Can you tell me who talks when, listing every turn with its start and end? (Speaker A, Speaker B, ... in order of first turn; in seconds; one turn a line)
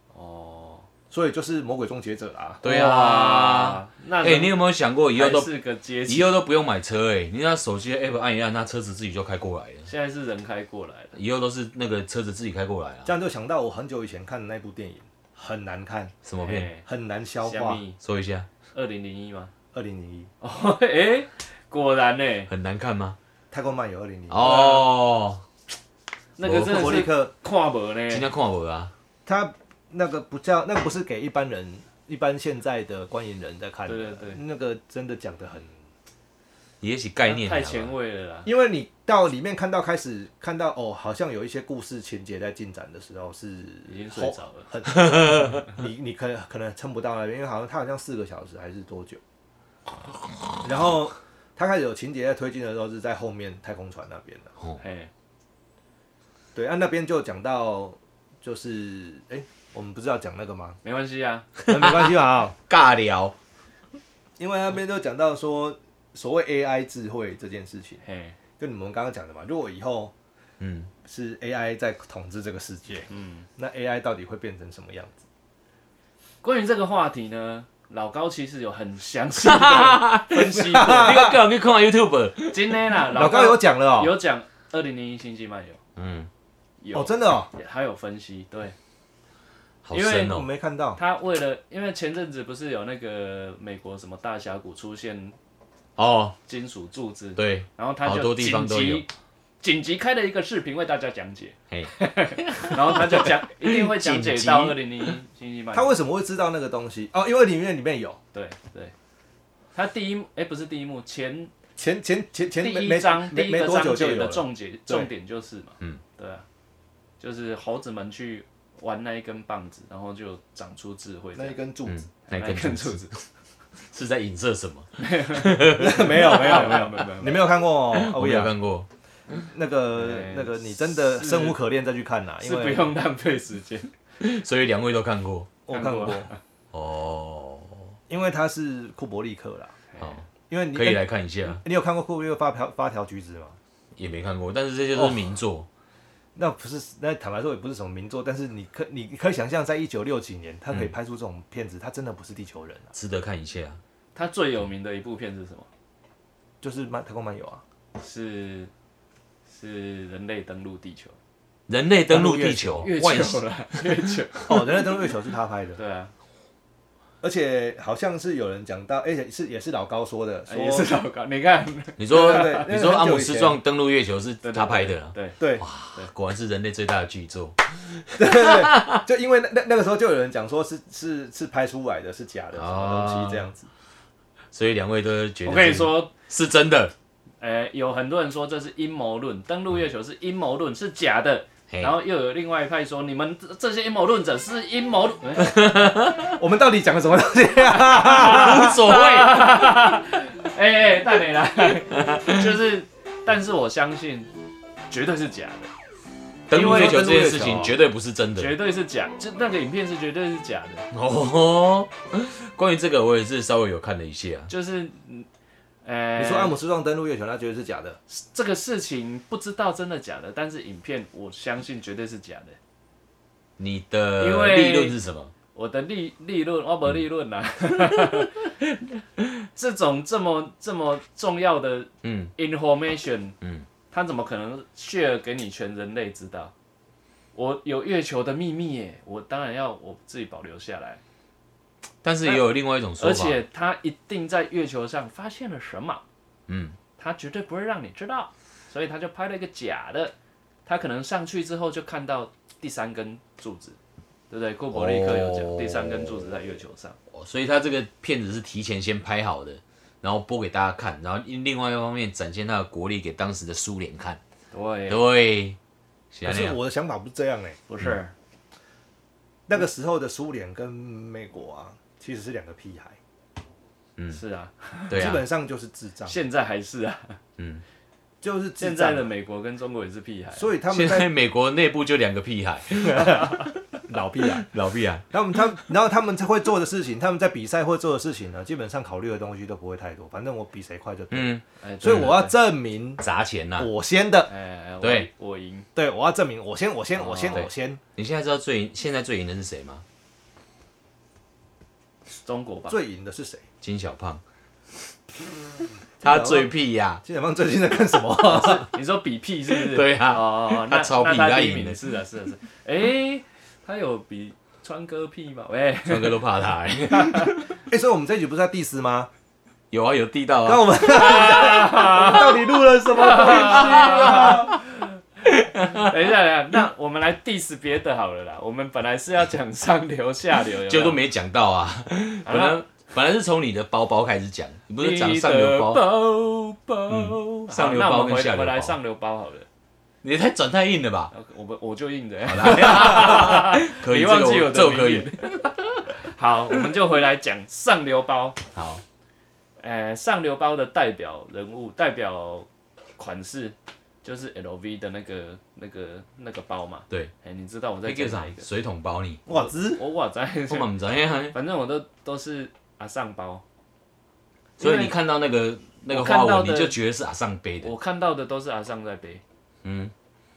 Speaker A: 0.1-0.9
Speaker B: 1.1-2.6
Speaker A: 2.6-4.5
Speaker C: 2.6-5.5
Speaker A: 5.1-6.3
Speaker C: 6.1-9.9
Speaker A: 9.9-11.2
Speaker C: 11.2-13.1
Speaker B: 13.1-16.1
Speaker C: 16.2-16.7
Speaker A: 16.4-16.9
Speaker B: 16.9-17.8
Speaker A: 17.4-18.0
Speaker C: 18.0-18.5
Speaker A: 18.7-19.5
Speaker B: 19.7-20.3
Speaker A: 20.4-22.5
Speaker C: 22.5-23.2
Speaker B: 23.5-24.8
Speaker C: 24.3-25.4
Speaker A: 26.4-28.3
Speaker C: 26.4-27.0
Speaker B: 26.5-27.3
Speaker C: 28.1-28.9
Speaker B: 29.3-35.7
Speaker A: 33.9-34.4
Speaker C: 36.8-37.9
Speaker A: 37.2-38.5
Speaker B: 38.5-49.2
Speaker A: 43.9-44.7
Speaker C: 45.0-45.6
Speaker B: 50.6-54.5
Speaker A: 54.8-55.1
Speaker B: 56.5-60.8
Speaker A: 60.8-61.5
Speaker C: 61.7-63.4
Speaker B: 61.7-62.6
Speaker B: 64.4-68.0
Speaker A: 68.0-68.4
Speaker B: 68.6-70.1
Speaker C: 70.6-70.9
Speaker B: 71.0-75.2
Speaker A: 73.1-73.5
Speaker A: 76.4-81.3
Speaker C: 79.4-82.9
Speaker B: 80.5-81.4
Speaker A: 82.5-85.8
Speaker B: 83.1-84.2
Speaker C: 86.0-86.3
Speaker A: 86.8-88.8
Speaker B: 86.9-87.5
Speaker C: 89.8-90.5
Speaker A: 89.9-90.4
Speaker B: 90.2-91.0
Speaker A: 91.0-95.4
Speaker C: 96.0-96.4
Speaker A: 96.5-99.1
Speaker C: 97.4-99.1
Speaker A: 99.6-106.0
Speaker C: 101.7-105.2
Speaker B: 105.7-108.2
Speaker A: 108.3-108.9
Speaker A: 109.8-111.5
Speaker B: 111.8-115.1
Speaker A: 112.6-116.5
Speaker A: 117.2-121.6
Speaker B: 121.3-122.0
Speaker C: 121.9-123.2
Speaker A: 122.3-123.2
Speaker C: 123.8-126.9
Speaker A: 125.0-127.4
Speaker B: 125.8-128.5
Speaker C: 127.9-128.9
Speaker B: 129.3-132.9
Speaker A: 129.9-131.6
Speaker A: 132.4-133.9
Speaker C: 134.2-135.5
Speaker B: 135.7-136.3
Speaker A: 135.7-136.4
Speaker C: 136.7-138.0
Speaker B: 138.1-139.8
Speaker A: 139.9-140.2
Speaker B: 140.5-143.6
Speaker C: 140.7-141.6
Speaker C: 144.0-145.7
Speaker B: 144.9-145.3
Speaker B: 146.4-152.9
Speaker C: 152.9-153.8
Speaker A: 154.2-155.7
Speaker B: 156.6-157.6
Speaker A: 158.0-158.7
Speaker A: 159.5-161.2
Speaker C: 161.7-163.4
Speaker B: 162.1-162.9
Speaker A: 162.2-165.0
Speaker B: 164.5-165.8
Speaker A: 165.8-166.1
Speaker B: 167.2-170.9
Speaker A: 170.5-172.7
Speaker C: 172.0-179.0
Speaker B: 172.1-173.6
Speaker A: 174.4-175.4
Speaker B: 178.1-183.7
Speaker C: 182.5-183.5
Speaker C: 184.5-186.9
Speaker A: 185.4-186.1
Speaker A: 187.4-195.6
Speaker C: 191.7-192.0
Speaker C: 195.4-196.4
Speaker B: 196.4-198.8
Speaker C: 197.9-199.7
Speaker A: 198.0-204.3
Speaker C: 202.1-202.4
Speaker A: 204.9-205.7
Speaker C: 206.5-208.6
Speaker A: 206.5-207.1
Speaker B: 206.5-207.8
Speaker A: 208.4-210.9
Speaker C: 210.9-214.5
Speaker A: 214.5-215.3
Speaker A: 215.8-216.6
Speaker B: 216.2-218.0
Speaker A: 218.1-222.6
Speaker C: 223.6-225.3
Speaker A: 224.2-225.0
Speaker A: 225.6-233.3
Speaker C: 232.0-232.3
Speaker C: 233.4-233.7
Speaker A: 233.9-236.5
Speaker A: 237.3-241.0
Speaker C: 242.0-243.4
Speaker A: 243.0-246.0
Speaker C: 246.5-246.8
Speaker A: 247.0-250.1
Speaker A: 250.7-253.8
Speaker A: 254.3-257.0
Speaker C: 254.7-256.3
Speaker C: 257.1-264.2
Speaker A: 264.5-265.1
Speaker C: 264.9-265.6
Speaker C: 266.1-266.6
Speaker B: 266.2-267.6
Speaker A: 267.7-268.1
Speaker B: 269.5-273.0
Speaker A: 274.1-275.1
Speaker C: 274.9-275.2
Speaker B: 274.9-276.2
Speaker A: 276.1-277.2
Speaker C: 277.4-277.6
Speaker B: 278.2-279.1
Speaker A: 278.6-280.5
Speaker B: 280.4-281.1
Speaker C: 280.7-283.5
Speaker B: 282.8-284.5
Speaker C: 284.4-285.1
Speaker B: 285.1-293.0
Speaker C: 291.1-292.1
Speaker A: 291.6-292.3
Speaker C: 293.0-293.7
Speaker B: 293.6-294.3
Speaker A: 294.3-295.7
Speaker C: 294.8-295.1
Speaker B: 295.8-297.8
Speaker A: 296.9-297.5
Speaker C: 297.3-299.8
Speaker A: 302.1-302.8
Speaker B: 302.7-303.4
Speaker C: 303.6-304.2
Speaker C: 306.0-307.0
Speaker B: 306.0-308.7
Speaker A: 308.4-316.2
Speaker C: 309.5-311.8
Speaker C: 315.9-317.5
Speaker A: 316.9-317.4
Speaker B: 317.7-319.1
Speaker C: 319.7-322.3
Speaker B: 320.4-324.6
Speaker A: 321.3-322.2
Speaker A: 322.9-324.6
Speaker C: 323.1-324.6
Speaker C: 325.2-325.9
Speaker A: 325.8-331.0
Speaker C: 330.5-335.9
Speaker A: 332.2-332.6
Speaker A: 334.8-339.5
Speaker C: 336.9-338.8
Speaker C: 340.0-341.1
Speaker A: 341.1-348.4
Speaker C: 342.3-345.5
Speaker C: 348.5-348.8
Speaker A: 349.6-358.5
Speaker C: 357.9-359.2
Speaker B: 359.3-359.8
Speaker A: 359.3-360.7
Speaker C: 360.5-361.4
Speaker A: 361.3-363.4
Speaker A: 364.6-364.9
Speaker C: 364.6-367.7
Speaker A: 365.9-366.8
Speaker A: 367.6-369.2
Speaker C: 369.6-369.9